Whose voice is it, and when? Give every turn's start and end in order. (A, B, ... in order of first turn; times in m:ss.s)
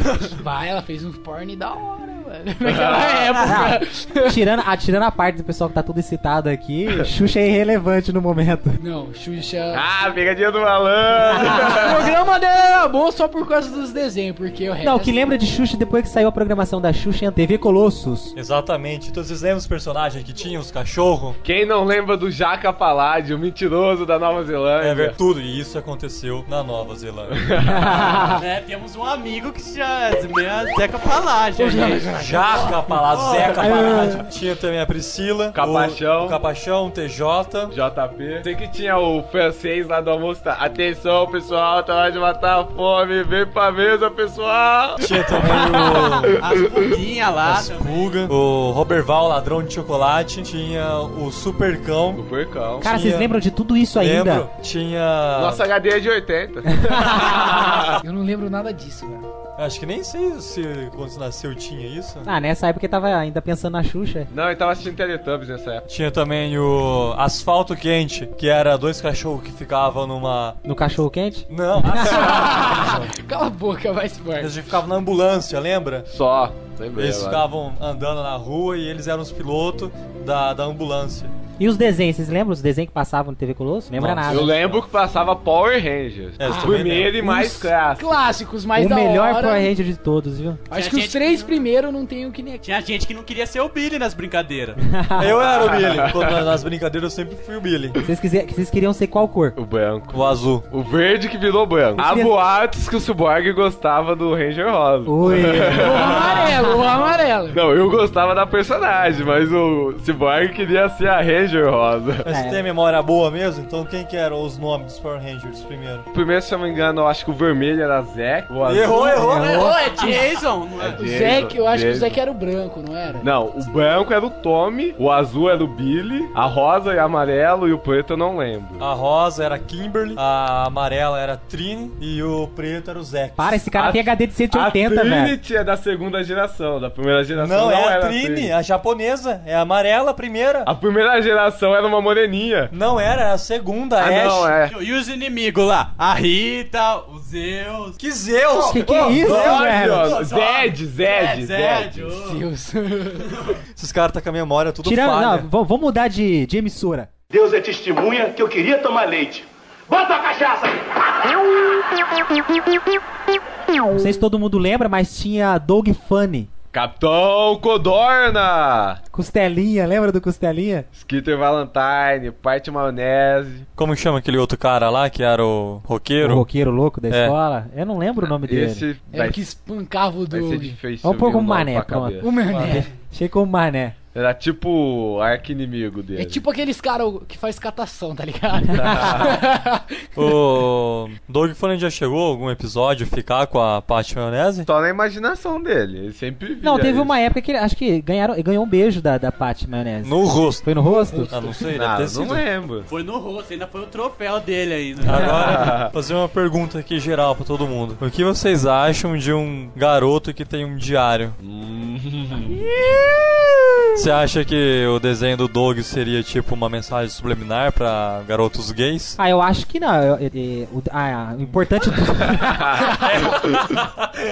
0:00.4-0:04.4 A
0:02.6-0:03.4 B
0:03.4-0:08.8 C
0:08.8-0:09.9 A
0:09.7-0:12.1 B
0:11.4-0:15.2 A
0:14.8-0:18.3 C
0:18.4-0:21.4 D
0:21.4-0:25.2 B
0:24.8-0:28.1 D
0:27.4-0:28.2 B
0:27.8-0:28.4 C
0:28.3-0:34.0 E
0:31.6-0:32.4 A
0:32.1-0:37.8 D
0:33.6-0:34.2 C
0:35.5-0:36.4 B
0:37.7-0:45.8 B
0:45.0-0:46.4 D
0:46.4-0:48.3 E
0:46.6-0:46.9 B
0:47.4-0:52.2 D
0:52.2-0:52.9 B
0:52.8-0:53.4 D
0:52.8-0:54.5 C
0:53.9-0:55.6 D
0:55.4-0:58.0 B
0:58.0-0:59.3 A
0:59.6-1:02.3 D
1:02.3-1:04.3 C
1:04.3-1:05.9 B
1:05.9-1:10.6 D
1:10.6-1:11.5 C
1:11.5-1:13.1 D
1:11.9-1:14.6 A
1:14.4-1:16.1 D
1:16.1-1:17.4 B
1:17.0-1:21.3 D
1:21.6-1:24.5 C
1:24.0-1:24.8 D
1:24.3-1:28.2 B
1:26.4-1:27.2 D
1:26.4-1:29.7 A
1:28.8-1:30.6 C
1:30.7-1:32.6 A
1:30.7-1:31.6 E
1:32.6-1:34.8 E
1:34.8-1:35.3 C
1:35.2-1:38.0 D
1:35.6-1:36.5 B
1:38.0-1:39.6 C
1:39.6-1:52.2 B
1:40.1-1:40.6 D
1:42.0-1:42.3 C
1:45.1-1:46.8 C
1:45.8-1:47.6 A
1:52.2-1:56.1 D
1:52.3-1:52.6 C
1:56.1-1:59.2 B
1:58.7-1:59.8 D
1:59.0-1:59.7 C
1:59.4-2:01.0 E
1:59.5-2:00.4 A
2:00.8-2:02.2 B
2:01.0-2:03.3 A
2:03.2-2:08.9 B
2:08.8-2:13.6 D
2:13.4-2:15.4 C
2:13.7-2:18.5 B
2:17.4-2:20.7 D
2:20.6-2:22.7 B
2:22.7-2:24.5 D
2:24.0-2:24.7 B
2:24.7-2:28.0 E
2:28.0-2:30.0 D
2:28.5-2:30.1 C
2:29.2-2:32.2 B
2:30.2-2:32.4 E
2:32.2-2:33.3 A
2:33.8-2:35.5 D
2:34.8-2:37.1 C
2:37.3-2:41.6 F
2:43.9-2:46.5 C
2:46.7-2:49.0 B
2:49.1-2:50.9 C
2:51.0-2:53.7 B
2:53.8-2:56.5 D
2:56.2-2:58.9 C
2:57.1-2:57.4 D
2:58.4-2:59.4 B
2:59.1-3:00.8 A
3:00.3-3:02.4 B
3:01.0-3:04.0 C
3:02.2-3:02.9 A
3:02.5-3:02.8 D
3:04.1-3:06.4 B
3:06.2-3:10.3 A
3:08.8-3:09.4 B
3:10.2-3:14.7 D
3:14.7-3:17.2 B
3:16.6-3:21.6 C
3:20.0-3:22.4 D
3:21.7-3:22.9 B
3:22.9-3:25.7 E
3:25.0-3:31.4 D
3:25.4-3:25.9 B
3:31.4-3:32.6 B
3:34.0-3:39.2 D
3:39.2-3:42.8 C
3:42.4-3:43.6 B
3:43.0-3:43.9 D